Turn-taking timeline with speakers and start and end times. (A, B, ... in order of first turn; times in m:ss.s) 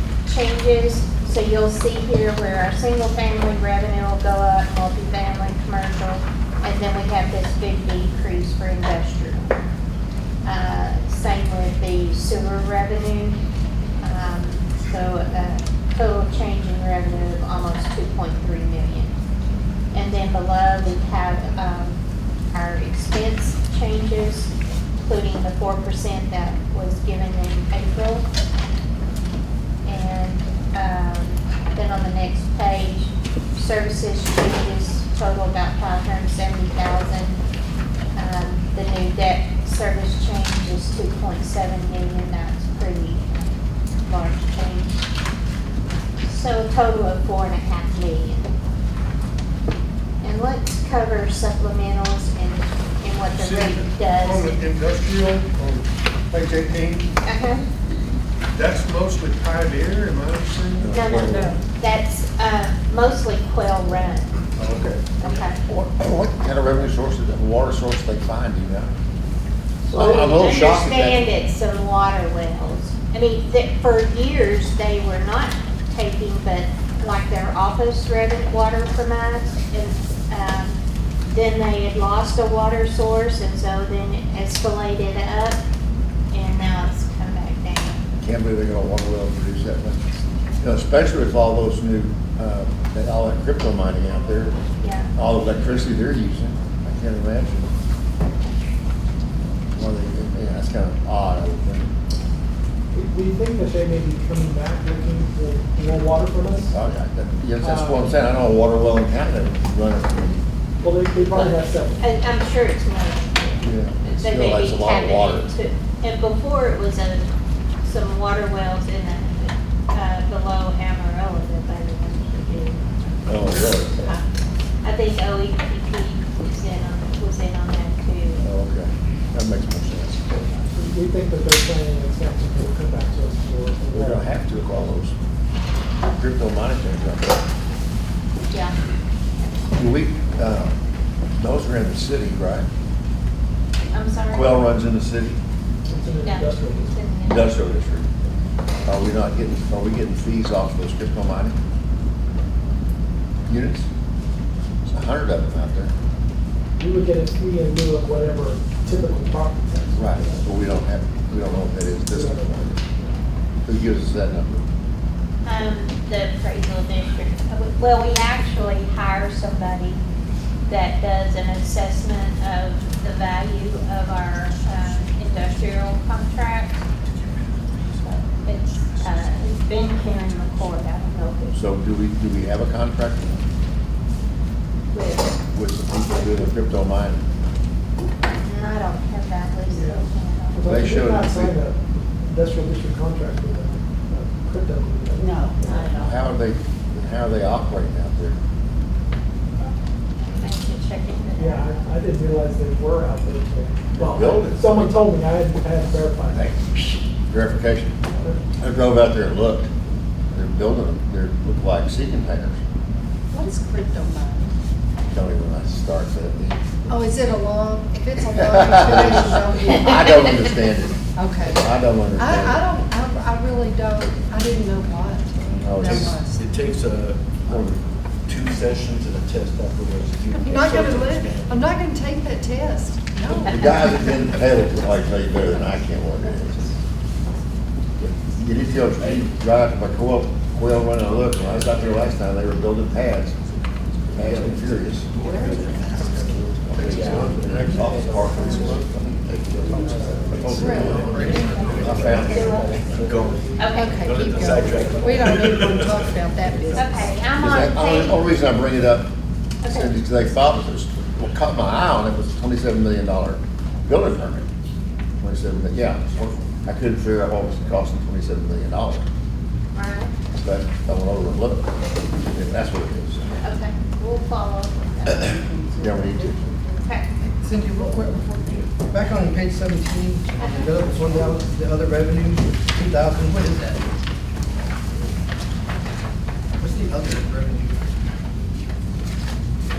0:00.2-0:09.6 A
0:10.4-0:13.4 A
0:14.0-0:19.2 A
0:19.9-0:22.0 A
0:22.5-0:28.3 A
0:29.8-0:37.4 A
0:38.2-0:45.1 A
0:46.2-0:48.5 A
0:50.2-0:54.6 A
0:53.4-0:57.1 B
0:57.2-0:57.7 A
0:58.5-1:01.0 B
1:00.8-1:01.6 C
1:00.9-1:04.4 A
1:04.6-1:05.3 B
1:05.2-1:05.6 A
1:05.7-1:08.9 C
1:09.9-1:11.3 C
1:09.9-1:25.6 A
1:26.3-1:28.0 A
1:28.2-1:30.1 C
1:30.6-1:34.6 C
1:34.8-1:35.1 A
1:35.2-1:37.7 C
1:39.8-1:41.9 C
1:42.9-1:46.8 D
1:46.7-1:50.4 C
1:47.6-1:48.1 D
1:50.8-1:52.0 D
1:52.0-1:57.3 A
1:53.6-1:55.5 C
1:57.8-2:04.2 A
2:03.3-2:04.1 C
2:04.8-2:08.5 A
2:08.4-2:10.4 C
2:10.5-2:14.2 D
2:13.9-2:15.2 C
2:16.0-2:17.4 C
2:18.5-2:18.8 A
2:19.7-2:20.8 C
2:21.4-2:22.7 C
2:23.9-2:24.6 A
2:24.3-2:25.4 C
2:25.9-2:26.9 D
2:26.2-2:27.5 A
2:27.2-2:28.1 C
2:28.8-2:31.6 C
2:33.5-2:33.9 C
2:34.9-2:35.9 C
2:36.8-2:40.5 D
2:40.0-2:42.8 C
2:42.1-2:43.1 D
2:43.6-2:44.6 C
2:45.4-2:50.0 A
2:50.7-2:56.8 A
2:58.0-3:01.6 A
3:01.5-3:03.5 C
3:04.9-3:05.3 A
3:05.5-3:07.3 C
3:08.3-3:10.7 A
3:09.7-3:15.9 D
3:10.6-3:11.6 C
3:15.5-3:16.2 A
3:15.7-3:18.4 C
3:19.6-3:21.8 A
3:21.4-3:26.5 D
3:23.9-3:25.2 C
3:26.3-3:28.0 C
3:28.1-3:28.4 D
3:28.6-3:29.7 C
3:30.3-3:32.6 C
3:33.3-3:34.5 E
3:35.1-3:36.6 C
3:36.9-3:40.4 E
3:38.3-3:42.6 C
3:41.2-3:46.5 E
3:45.6-3:46.2 C
3:45.8-3:47.7 F
3:47.5-3:47.8 C
3:48.3-3:51.6 F
3:50.3-3:54.1 E
3:53.3-3:56.7 C
3:53.4-3:53.9 A
3:58.1-4:03.4 C
4:04.1-4:05.1 C
4:04.2-4:08.7 F
4:05.2-4:06.1 E
4:06.7-4:09.4 C
4:07.0-4:07.8 B
4:08.5-4:08.8 B
4:09.3-4:17.0 F
4:09.6-4:10.0 B
4:10.3-4:12.8 C
4:10.5-4:12.2 E
4:11.1-4:12.0 B
4:12.1-4:12.8 A
4:13.6-4:14.0 A
4:13.7-4:17.1 E
4:16.8-4:18.2 A
4:17.4-4:19.1 C
4:19.6-4:19.9 A
4:19.7-4:24.5 C
4:25.2-4:29.1 C
4:29.7-4:30.1 A
4:30.4-4:31.7 C
4:32.3-4:33.4 C
4:33.4-4:35.5 A
4:35.0-4:36.4 C
4:36.8-4:37.1 A
4:37.2-4:43.8 G
4:40.4-4:40.8 A
4:46.6-4:47.8 G